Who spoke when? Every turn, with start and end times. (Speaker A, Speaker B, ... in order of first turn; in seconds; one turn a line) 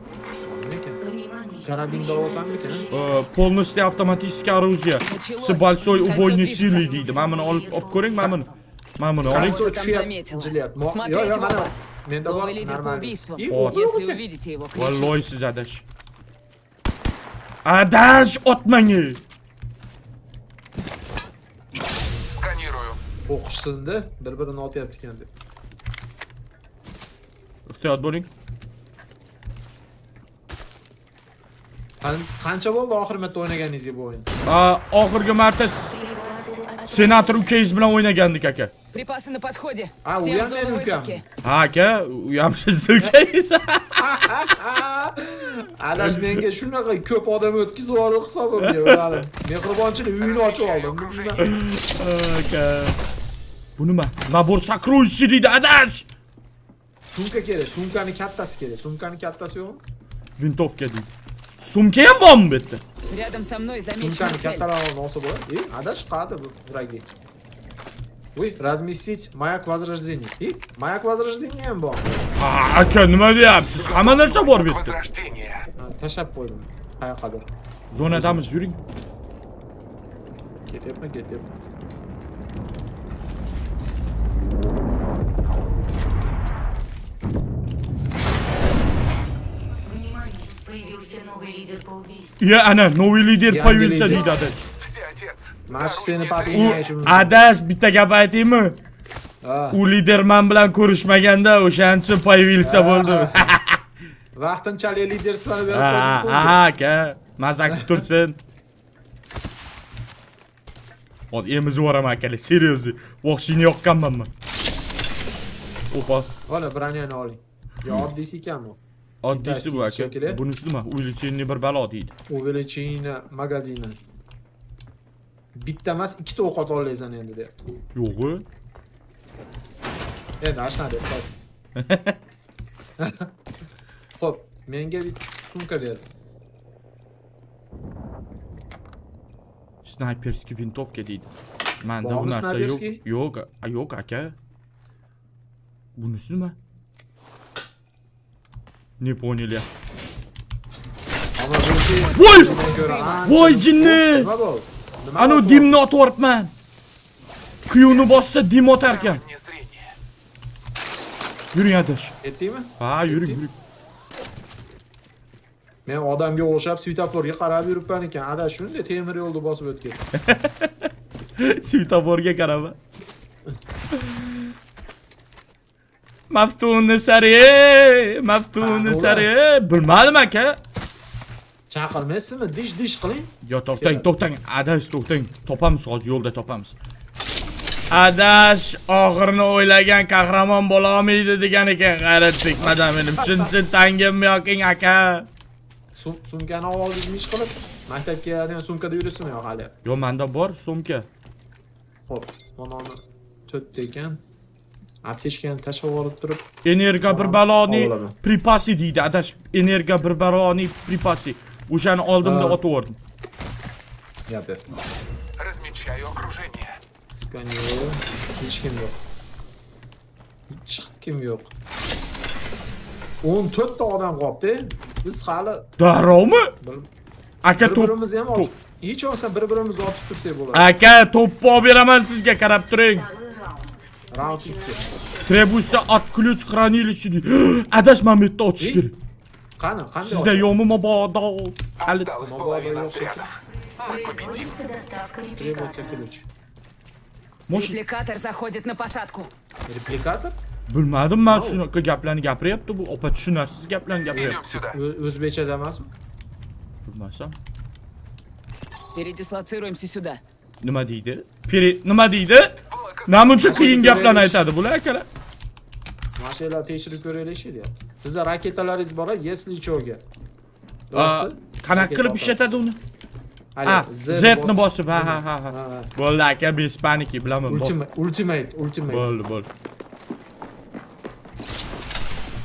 Speaker A: 0.4-1.0
Speaker B: 1.0-3.2
Speaker A: 1.6-2.9
Speaker C: 2.9-9.6
Speaker D: 5.0-6.8
Speaker B: 6.6-8.5
Speaker D: 9.3-11.7
Speaker A: 9.3-14.2
Speaker D: 12.2-15.2
Speaker C: 13.5-13.8
Speaker C: 14.7-15.8
Speaker C: 17.6-19.2
Speaker E: 22.4-23.0
Speaker A: 23.3-25.3
Speaker C: 27.7-28.3
Speaker A: 32.0-34.3
Speaker C: 34.5-35.9
Speaker B: 35.8-37.6
Speaker C: 36.9-38.7
Speaker D: 38.9-41.2
Speaker A: 40.0-41.2
Speaker C: 41.4-44.0
Speaker A: 44.0-51.5
Speaker C: 48.6-49.2
Speaker E: 50.2-51.5
Speaker C: 51.4-53.0
Speaker C: 53.8-56.1
Speaker A: 57.1-59.8
Speaker C: 60.4-62.8
Speaker D: 63.1-64.7
Speaker A: 64.0-67.1
Speaker A: 68.3-72.3
Speaker C: 72.4-75.0
Speaker E: 73.7-75.7
Speaker A: 75.8-77.5
Speaker C: 77.9-78.8
Speaker A: 78.1-78.4
Speaker A: 80.7-81.5
Speaker B: 89.8-92.3
Speaker C: 92.4-94.6
Speaker A: 93.5-94.2
Speaker E: 94.8-96.9
Speaker A: 95.7-97.3
Speaker C: 96.5-98.8
Speaker A: 99.4-99.8
Speaker C: 99.7-103.8
Speaker A: 102.6-103.5
Speaker A: 104.3-106.6
Speaker C: 105.7-108.4
Speaker A: 107.7-108.0
Speaker C: 111.3-114.3
Speaker C: 115.9-116.3
Speaker A: 116.5-118.8
Speaker C: 119.2-122.1
Speaker A: 119.3-120.4
Speaker A: 122.3-124.0
Speaker A: 125.5-127.6
Speaker C: 127.9-128.4
Speaker A: 130.4-131.3
Speaker C: 131.8-132.2
Speaker A: 133.0-133.3
Speaker A: 134.2-136.1
Speaker C: 139.8-141.3
Speaker C: 141.8-144.3
Speaker A: 142.0-143.0
Speaker C: 145.9-146.6
Speaker C: 149.0-149.7
Speaker A: 151.4-155.7
Speaker C: 152.1-152.6
Speaker D: 152.1-153.2
Speaker C: 153.2-154.3
Speaker C: 155.2-156.5
Speaker C: 157.7-159.2
Speaker E: 158.8-159.9
Speaker C: 161.5-162.1
Speaker A: 162.2-163.4
Speaker C: 162.8-163.5
Speaker A: 165.8-170.0
Speaker C: 170.2-172.8
Speaker C: 173.9-174.5
Speaker C: 176.3-180.6
Speaker A: 178.6-179.3
Speaker A: 181.7-184.1
Speaker C: 183.4-186.8
Speaker C: 187.9-195.3
Speaker A: 192.6-193.5
Speaker A: 195.9-199.7
Speaker C: 199.8-201.1
Speaker A: 202.1-204.2
Speaker A: 205.0-206.5
Speaker C: 206.6-213.0
Speaker A: 207.1-208.1
Speaker A: 212.2-212.6
Speaker A: 214.3-214.6
Speaker E: 215.4-216.8
Speaker A: 217.1-219.0
Speaker A: 220.5-221.5
Speaker A: 223.2-225.7
Speaker C: 225.8-226.5
Speaker A: 226.6-226.9
Speaker C: 227.4-228.5
Speaker A: 227.6-230.7
Speaker C: 230.5-233.1
Speaker B: 232.9-235.8
Speaker A: 234.1-234.8
Speaker C: 235.2-238.9
Speaker A: 239.6-240.5
Speaker C: 240.0-242.1
Speaker E: 241.8-244.6
Speaker A: 242.2-243.3
Speaker B: 243.8-246.1
Speaker A: 245.3-246.2
Speaker C: 247.5-247.8
Speaker D: 247.5-249.3
Speaker A: 249.7-250.4
Speaker C: 250.7-254.4
Speaker A: 251.3-251.6
Speaker E: 254.1-254.8
Speaker A: 254.5-255.9
Speaker C: 256.9-257.4
Speaker D: 258.9-260.2
Speaker C: 260.6-265.1
Speaker E: 262.7-263.5
Speaker A: 263.4-264.4
Speaker A: 266.2-270.0
Speaker A: 270.9-272.5
Speaker C: 270.9-272.8
Speaker A: 273.6-275.9
Speaker C: 273.6-277.7
Speaker A: 277.5-279.1
Speaker C: 278.9-279.5